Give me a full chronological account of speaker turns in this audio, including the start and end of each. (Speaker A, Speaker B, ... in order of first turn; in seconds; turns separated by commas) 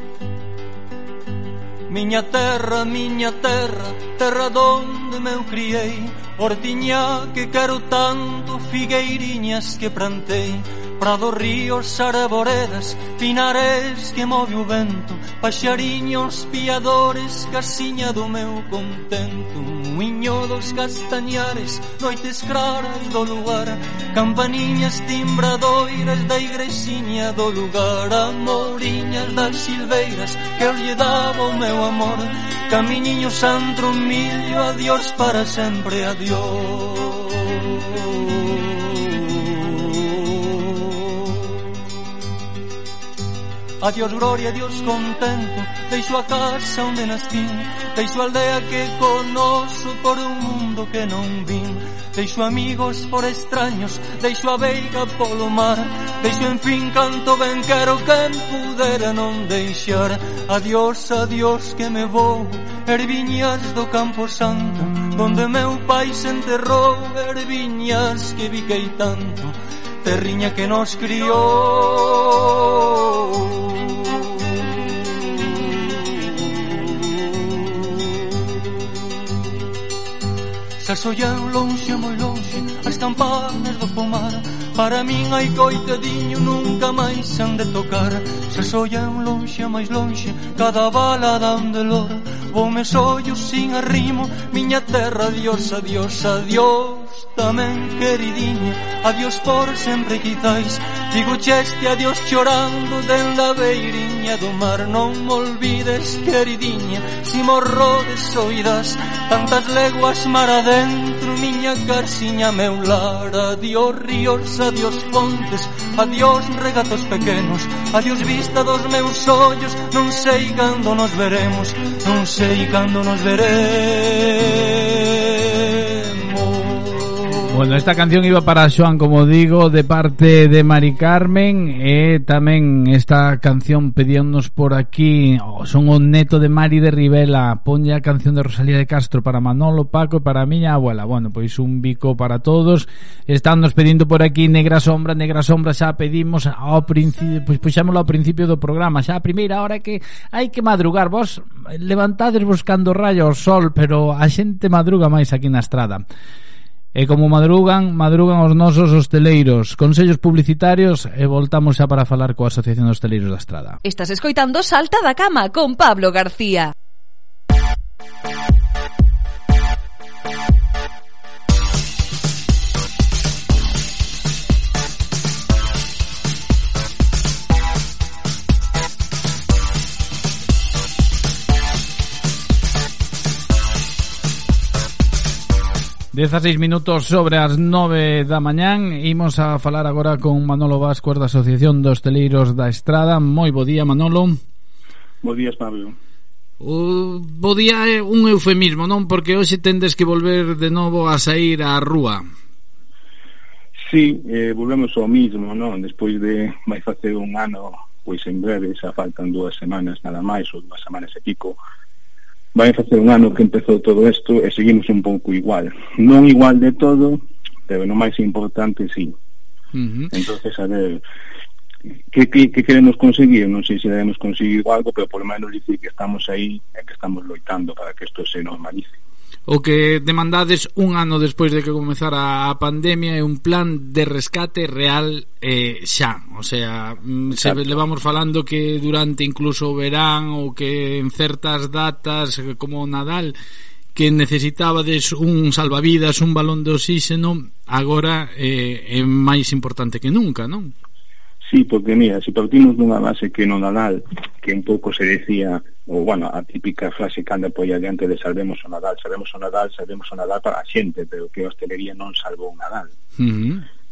Speaker A: 1.9-41.8, Speaker A: 43.8-79.3, Speaker A: 80.8-127.4, Speaker B: 127.5-156.0, Speaker B: 156.9-163.8, Speaker C: 163.9-166.5, Speaker B: 186.1-194.4, Speaker D: 195.2-196.0, Speaker B: 196.6-202.2, Speaker D: 203.8-211.6, Speaker D: 212.6-219.1, Speaker B: 219.8-220.1, Speaker D: 220.1-221.0, Speaker D: 222.1-228.9, Speaker B: 229.5-243.3, Speaker D: 237.3-237.7, Speaker B: 243.9-250.7, Speaker D: 251.5-262.9, Speaker B: 263.2-263.6